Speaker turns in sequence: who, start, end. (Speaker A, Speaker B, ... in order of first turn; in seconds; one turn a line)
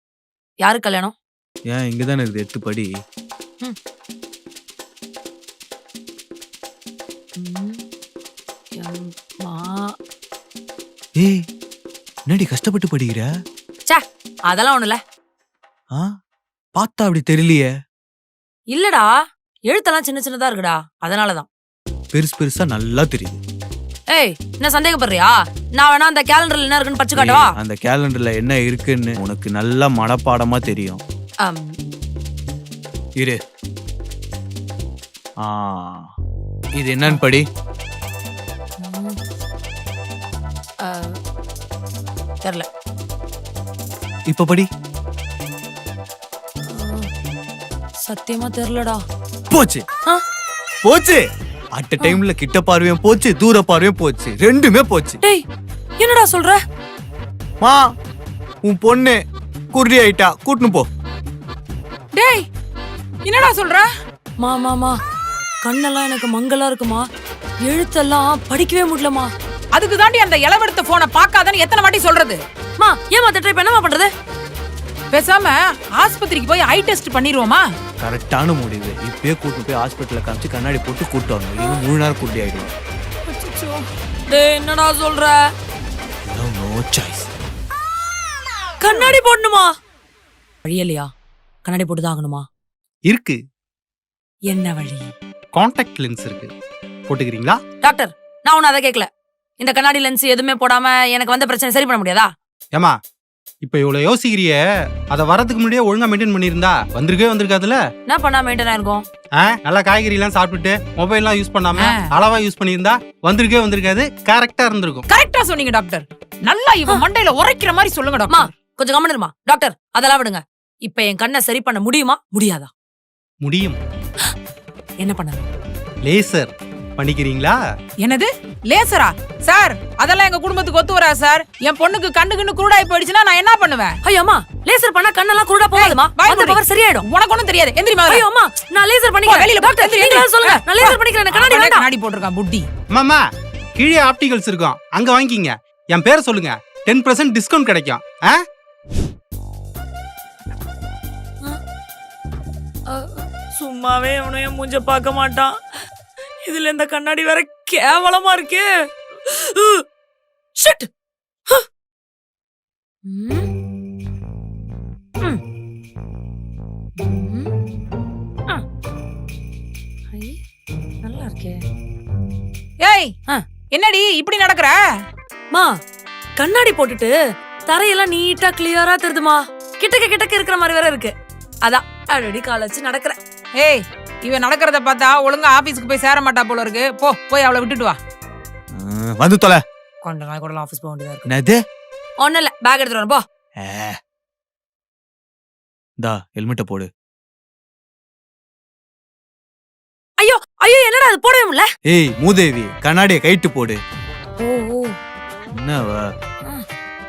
Speaker A: 0.6-1.1
Speaker B: 1.7-2.9
Speaker A: 7.4-7.8
Speaker A: 8.8-9.9
Speaker B: 12.3-13.3
Speaker A: 13.9-15.0
Speaker B: 16.8-17.7
Speaker A: 18.7-19.1
Speaker A: 19.7-21.5
Speaker B: 22.1-23.4
Speaker A: 24.1-27.5
Speaker B: 27.1-31.0
Speaker A: 31.4-31.8
Speaker B: 35.4-36.1
Speaker B: 36.8-37.5
Speaker A: 38.8-39.2
Speaker A: 40.8-41.2
Speaker B: 44.3-44.7
Speaker A: 46.7-47.1
Speaker A: 48.0-49.0
Speaker B: 49.5-49.9
Speaker B: 50.8-51.2
Speaker B: 51.8-55.2
Speaker A: 56.0-56.6
Speaker B: 58.6-59.2
Speaker B: 59.7-60.9
Speaker C: 62.1-62.5
Speaker C: 63.2-63.9
Speaker A: 64.4-65.0
Speaker A: 65.6-67.1
Speaker A: 67.7-69.3
Speaker C: 69.7-72.4
Speaker A: 72.8-74.1
Speaker C: 75.1-77.6
Speaker B: 78.0-82.7
Speaker C: 83.3-83.8
Speaker A: 84.3-85.4
Speaker B: 86.3-87.3
Speaker A: 88.8-89.7
Speaker A: 90.7-91.1
Speaker A: 91.7-92.5
Speaker D: 93.1-93.4
Speaker A: 94.5-95.1
Speaker D: 95.5-96.5
Speaker D: 97.1-97.6
Speaker A: 97.8-99.1
Speaker A: 99.6-102.3
Speaker D: 103.6-104.6
Speaker D: 105.1-107.8
Speaker A: 108.1-109.0
Speaker D: 109.4-115.0
Speaker C: 111.8-112.1
Speaker C: 115.1-118.5
Speaker A: 118.3-122.7
Speaker D: 123.4-123.8
Speaker A: 125.0-125.5
Speaker D: 126.0-127.6
Speaker C: 128.0-134.0
Speaker A: 134.0-137.1
Speaker C: 135.8-138.2
Speaker A: 138.1-141.8
Speaker C: 139.3-142.7
Speaker D: 142.9-143.2
Speaker D: 143.8-148.4
Speaker A: 152.9-155.6
Speaker A: 156.4-158.7
Speaker A: 159.2-159.8
Speaker A: 160.6-160.9
Speaker A: 163.1-163.5
Speaker A: 167.0-167.5
Speaker A: 170.1-170.4
Speaker A: 171.0-171.6
Speaker C: 172.8-173.1
Speaker C: 173.7-174.8
Speaker A: 176.4-177.1
Speaker A: 177.7-181.1
Speaker A: 181.6-183.2
Speaker C: 183.6-188.0
Speaker B: 188.7-189.6
Speaker A: 190.0-191.3
Speaker B: 191.3-191.6
Speaker A: 192.2-193.2
Speaker B: 193.6-194.0
Speaker B: 196.0-196.9
Speaker A: 200.2-201.7
Speaker B: 201.9-203.8
Speaker A: 204.4-204.9
Speaker B: 205.6-206.0